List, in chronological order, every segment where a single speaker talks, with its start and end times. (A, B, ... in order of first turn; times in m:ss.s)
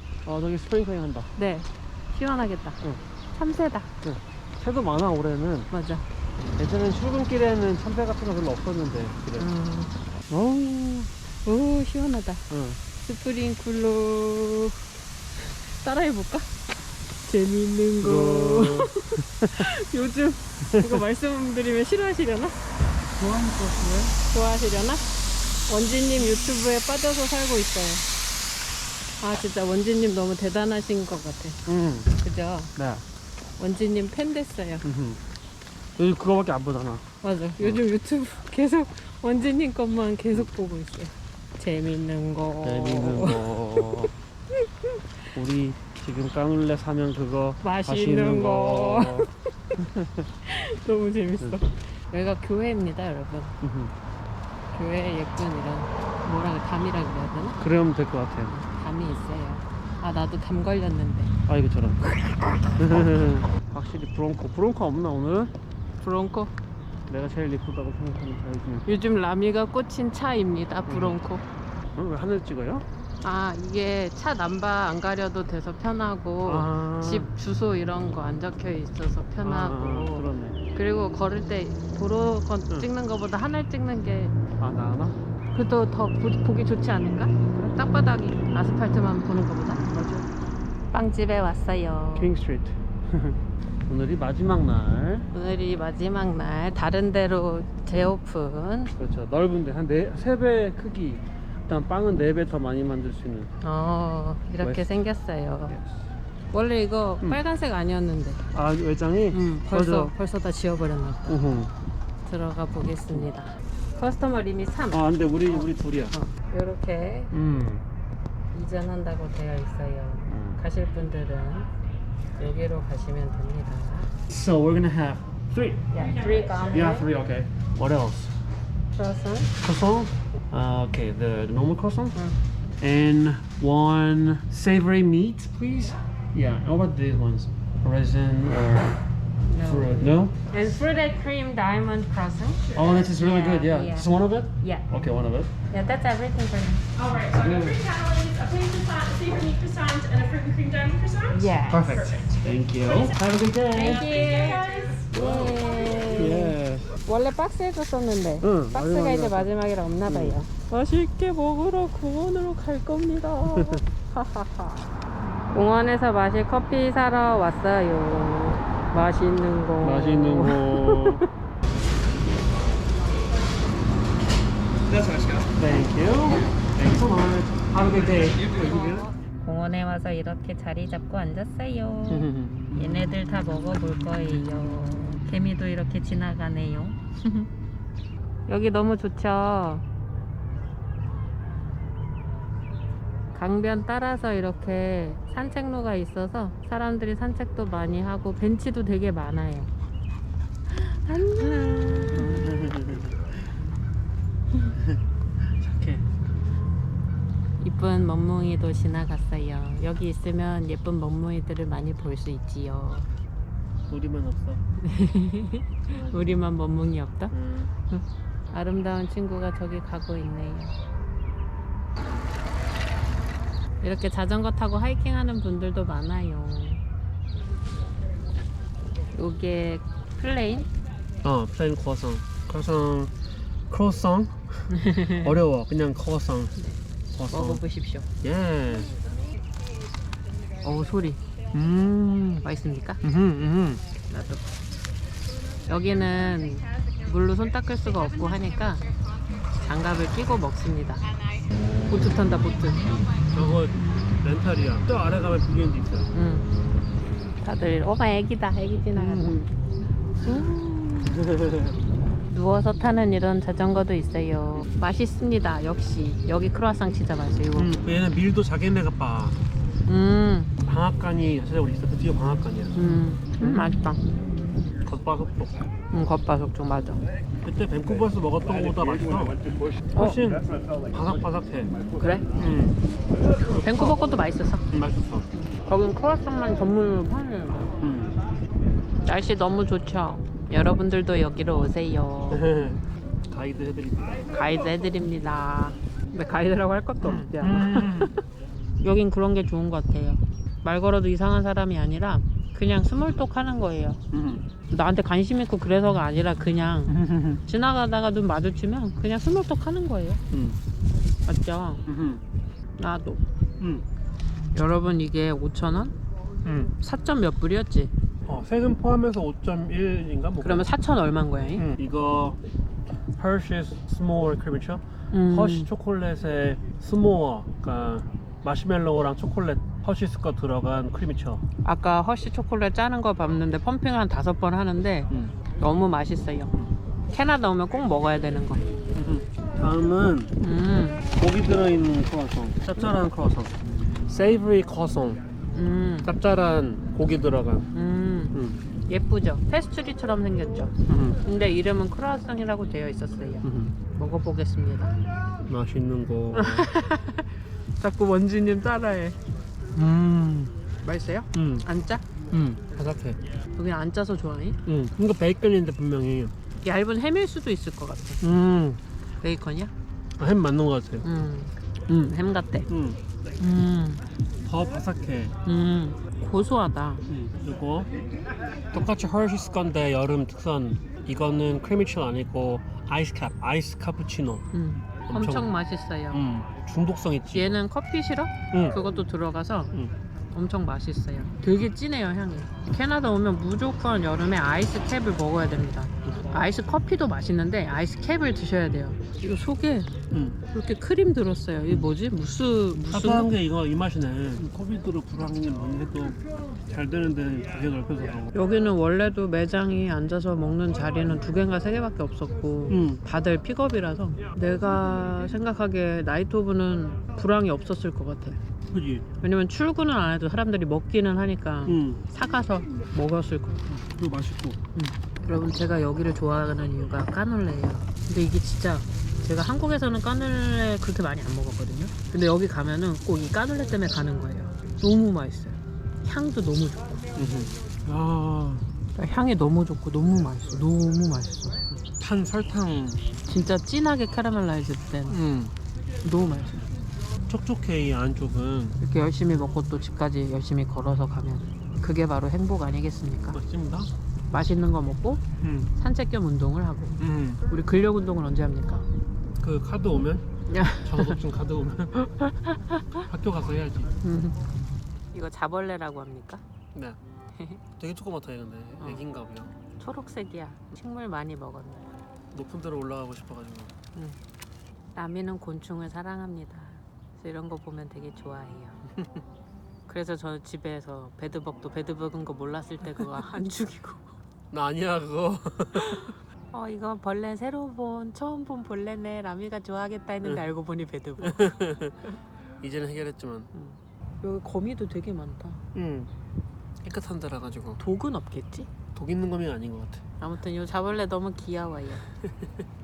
0:00.2-0:01.3 A
0:01.4-0:02.8 B
0:03.3-0:03.9 B
0:04.0-0:05.7 A
0:05.7-0:06.0 B
0:06.4-0:09.5 A
0:09.4-0:09.9 B
0:10.3-0:11.1 A
0:11.4-0:14.8 B
0:12.5-0:12.8 A
0:15.4-0:16.5 B
0:17.2-0:22.6 B
0:18.0-0:19.6 A
0:20.7-0:21.0 A
0:23.2-0:24.1 A
0:24.2-0:25.1 B
0:25.7-0:28.0 B
0:29.2-0:31.6 B
0:31.6-0:32.1 A
0:32.2-0:32.7 B
0:32.8-0:33.0 A
0:33.6-0:34.8 B
0:34.8-0:35.2 A
0:36.0-0:37.0 A
0:37.2-0:44.1 B
0:42.6-0:44.1 A
0:44.7-0:45.0 B
0:45.3-0:50.3 A
0:47.6-0:49.4 B
0:50.4-0:53.6 B
0:53.6-0:53.9 A
0:54.7-0:57.6 B
0:57.6-0:58.6 A
0:58.5-1:01.3 B
1:01.5-1:05.5 A
1:06.0-1:06.5 B
1:07.1-1:08.9 A
1:08.9-1:11.4 B
1:10.9-1:11.2 A
1:11.9-1:12.8 A
1:13.2-1:24.3 B
1:16.4-1:17.3 A
1:19.4-1:20.6 A
1:24.6-1:25.2 A
1:25.5-1:29.9 B
1:27.6-1:28.0 A
1:29.7-1:30.3 A
1:30.9-1:32.3 B
1:32.1-1:35.3 A
1:35.3-1:38.9 B
1:39.0-1:43.5 A
1:43.6-1:45.8 B
1:44.6-1:44.9 A
1:45.7-1:46.1 A
1:46.5-1:48.4 B
1:48.5-1:50.1 A
1:49.3-1:51.3 B
1:51.3-1:51.7 A
1:52.2-1:57.3 B
1:54.9-1:56.2 A
1:57.3-1:57.8 A
1:58.5-2:01.7 B
2:00.3-2:00.6 A
2:02.4-2:04.1 B
2:04.3-2:08.3 A
2:05.9-2:07.1 B
2:08.9-2:09.5 B
2:09.6-2:12.2 A
2:12.8-2:19.0 A
2:19.5-2:24.9 B
2:19.6-2:20.4 A
2:22.8-2:25.5 A
2:25.7-2:27.2 B
2:27.1-2:28.0 A
2:27.9-2:31.1 C
2:28.3-2:32.4 B
2:31.5-2:34.1 A
2:33.7-2:44.8 B
2:36.1-2:36.9 A
2:38.4-2:39.5 A
2:40.1-2:40.4 A
2:43.5-2:43.8 A
2:45.5-2:51.3 B
2:49.8-2:51.2 A
2:55.4-2:59.1 A
2:58.6-3:07.5 B
3:02.1-3:03.1 A
3:08.5-3:09.8 B
3:13.3-3:19.7 B
3:20.7-3:22.5 B
3:22.1-3:23.4 A
3:24.6-3:26.0 A
3:27.6-3:33.1 B
3:33.9-3:34.6 A
3:34.8-3:37.3 B
3:35.9-3:36.5 A
3:37.3-3:37.7 A
3:37.9-3:40.8 B
3:43.8-3:46.8 B
3:49.1-3:50.7 B
3:51.2-3:53.1 A
3:53.7-3:56.5 A
3:54.7-3:55.3 B
3:56.6-3:58.1 B
3:57.1-3:57.6 A
3:58.2-3:58.9 A
4:00.6-4:01.2 B
4:01.5-4:02.4 A
4:02.4-4:03.0 B
4:03.0-4:03.8 A
4:04.1-4:04.4 B
4:05.7-4:08.9 B
4:09.5-4:11.0 B
4:11.9-4:13.1 B
4:13.3-4:16.1 A
4:16.1-4:16.5 B
4:17.4-4:19.4 B
4:18.9-4:19.5 A
4:20.2-4:20.8 B
4:20.3-4:21.8 A
4:22.3-4:27.8 B
4:27.6-4:29.4 A
4:29.9-4:30.5 B
4:30.6-4:32.8 A
4:32.8-4:34.0 B
4:33.4-4:33.7 A
4:34.8-4:35.6 A
4:35.9-4:37.0 B
4:37.4-4:39.4 A
4:39.9-4:41.8 A
4:39.9-4:40.2 B
4:41.9-4:42.3 B
4:42.3-4:42.8 A
4:43.5-4:44.6 B
4:44.7-4:45.3 A
4:45.5-4:47.7 B
4:47.8-4:48.2 A
4:49.0-4:52.5 B
4:52.3-4:54.2 A
4:54.3-4:58.2 B
4:57.0-4:58.1 A
4:58.8-5:04.0 B
5:04.1-5:04.4 A
5:04.7-5:10.2 B
5:06.9-5:07.4 A
5:10.3-5:10.6 A
5:11.2-5:11.8 B
5:11.9-5:12.2 A
5:12.8-5:13.2 B
5:13.6-5:13.9 A
5:14.5-5:15.9 B
5:16.4-5:16.7 A
5:16.8-5:17.9 B
5:18.3-5:20.7 A
5:20.4-5:21.6 B
5:21.6-5:22.4 A
5:23.2-5:31.4 A
5:25.1-5:25.7 B
5:31.6-5:36.5 B
5:37.1-5:38.6 B
5:39.0-5:40.3 A
5:40.4-5:41.0 B
5:41.1-5:45.2 A
5:45.5-5:46.1 B
5:46.0-5:47.7 A
5:47.7-5:48.4 B
5:48.3-5:48.6 A
5:48.9-5:54.9 B
5:50.9-5:51.2 A
5:53.4-5:53.8 A
5:55.4-5:56.7 A
5:56.3-5:59.2 B
5:59.7-6:00.6 A
6:00.8-6:02.0 B
6:01.3-6:01.6 A
6:02.3-6:03.2 A
6:03.6-6:04.6 B
6:04.6-6:06.3 A
6:06.6-6:08.2 B
6:08.2-6:08.8 A
6:09.2-6:09.7 B
6:10.2-6:11.0 A
6:11.0-6:12.7 B
6:12.7-6:13.0 A
6:13.4-6:14.0 B
6:14.4-6:15.4 A
6:15.4-6:17.0 B
6:17.1-6:17.9 A
6:18.7-6:24.4 A
6:24.5-6:26.2 B
6:25.1-6:25.5 A
6:26.1-6:27.6 A
6:27.3-6:29.7 B
6:28.5-6:28.8 A
6:30.3-6:39.9 B
6:40.1-6:40.4 A
6:40.5-6:43.3 B
6:41.7-6:42.0 A
6:42.8-6:46.2 A
6:46.7-6:48.4 A
6:48.3-6:58.4 B
6:52.7-6:53.0 A
6:58.7-6:59.0 A
6:59.2-7:03.6 B
7:01.6-7:02.0 A
7:03.7-7:04.6 A
7:04.8-7:16.9 B
7:17.2-7:18.7 A
7:18.9-7:21.6 B
7:22.0-7:23.0 A
7:23.3-7:25.2 B
7:25.1-7:25.5 A
7:26.0-7:26.6 B
7:27.3-7:28.8 A
7:28.8-7:33.4 B
7:33.3-7:33.9 A
7:34.3-7:38.9 B
7:35.4-7:35.7 A
7:37.0-7:37.4 A
7:39.4-7:40.2 A
7:40.5-7:41.2 B
7:40.8-7:42.0 A
7:42.0-7:43.0 B
7:43.0-7:43.9 A
7:44.0-7:46.4 B
7:47.4-7:47.6 B
7:47.8-7:49.5 A
7:48.8-7:49.0 B
7:49.8-7:51.9 B
7:52.3-7:53.7 A
7:54.9-7:58.8 B
7:59.0-7:59.2 A
7:59.9-8:04.1 B
8:04.5-8:06.1 A
8:05.8-8:12.1 B
8:10.2-8:10.5 A
8:11.2-8:12.0 A
8:12.6-8:13.5 A
8:13.5-8:15.6 B
8:15.7-8:16.1 A
8:16.8-8:17.8 A
8:17.8-8:18.7 B
8:18.9-8:20.0 A
8:20.2-8:22.0 B
8:22.2-8:22.5 A